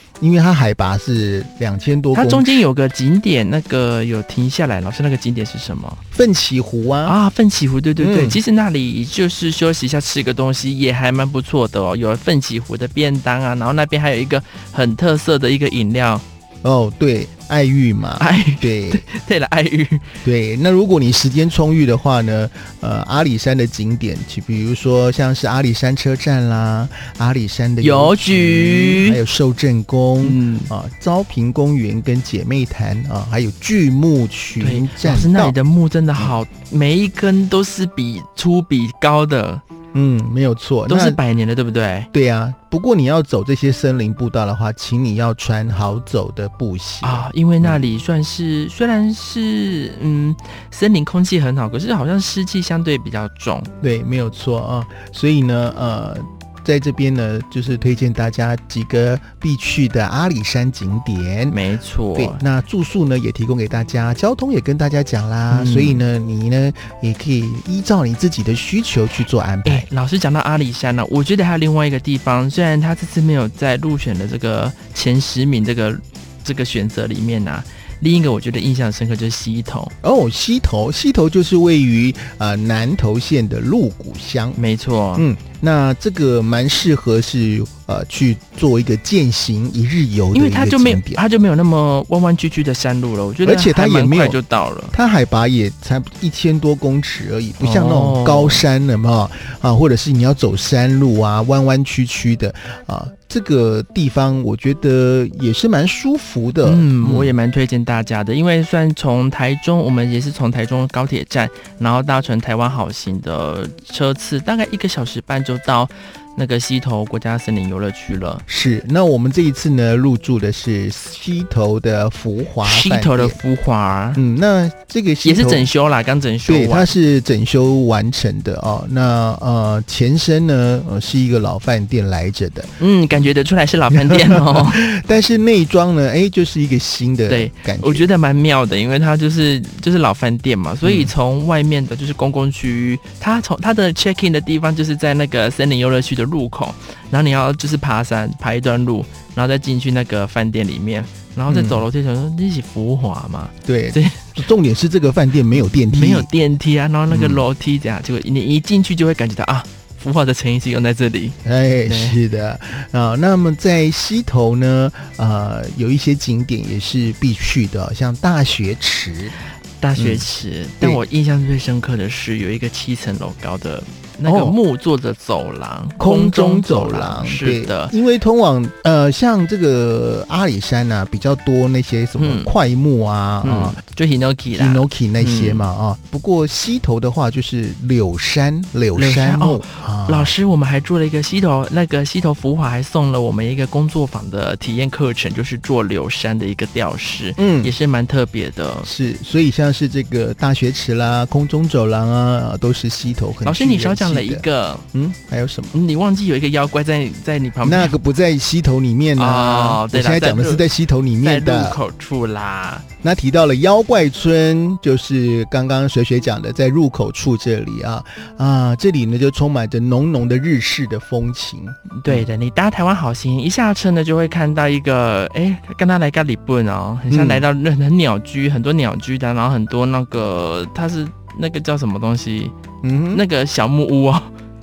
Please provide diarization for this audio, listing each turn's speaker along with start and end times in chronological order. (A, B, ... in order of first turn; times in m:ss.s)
0:00.2-0:02.5 A
0:02.1-0:06.0 B
0:06.1-0:07.2 A
0:07.1-0:16.2 B
0:08.0-0:08.4 A
0:16.6-0:19.1 A
0:18.2-0:20.2 B
0:20.2-0:35.6 A
0:27.8-0:29.2 B
0:30.2-0:30.7 B
0:34.6-0:39.6 B
0:39.9-0:41.2 A
0:40.9-0:42.1 B
0:42.1-0:47.8 A
0:47.0-0:53.7 B
0:53.8-1:01.6 A
1:01.5-1:02.4 B
1:02.2-1:09.9 A
1:05.5-1:06.0 B
1:09.6-1:19.9 B
1:20.0-1:24.6 A
1:24.6-1:25.3 B
1:25.2-1:31.2 A
1:30.3-1:34.9 B
1:33.4-1:34.4 A
1:34.9-1:47.4 A
1:37.6-1:38.6 B
1:46.6-1:58.4 B
1:58.5-2:03.4 A
2:02.6-2:04.2 B
2:04.2-2:05.7 A
2:05.2-2:06.9 B
2:06.5-2:12.7 A
2:12.8-2:14.8 B
2:13.9-2:18.1 A
2:17.3-2:34.4 B
2:20.8-2:21.1 A
2:31.5-2:31.9 A
2:33.6-2:36.3 A
2:35.5-2:42.2 B
2:37.1-2:37.5 A
2:41.4-2:49.4 A
2:49.8-2:57.9 B
2:50.0-2:50.3 A
2:54.2-2:54.6 A
2:56.0-3:03.8 A
3:02.2-3:02.5 B
3:03.4-3:05.6 B
3:04.5-3:10.3 A
3:09.0-3:18.9 B
3:17.4-3:17.7 A
3:18.8-3:25.8 A
3:23.4-3:24.9 B
3:25.7-3:27.9 B
3:27.6-3:31.8 A
3:29.2-3:30.7 B
3:31.2-3:32.8 B
3:33.0-3:42.3 A
3:41.9-3:52.5 B
3:47.1-3:47.5 A
3:52.8-3:53.2 A
3:53.1-3:54.3 B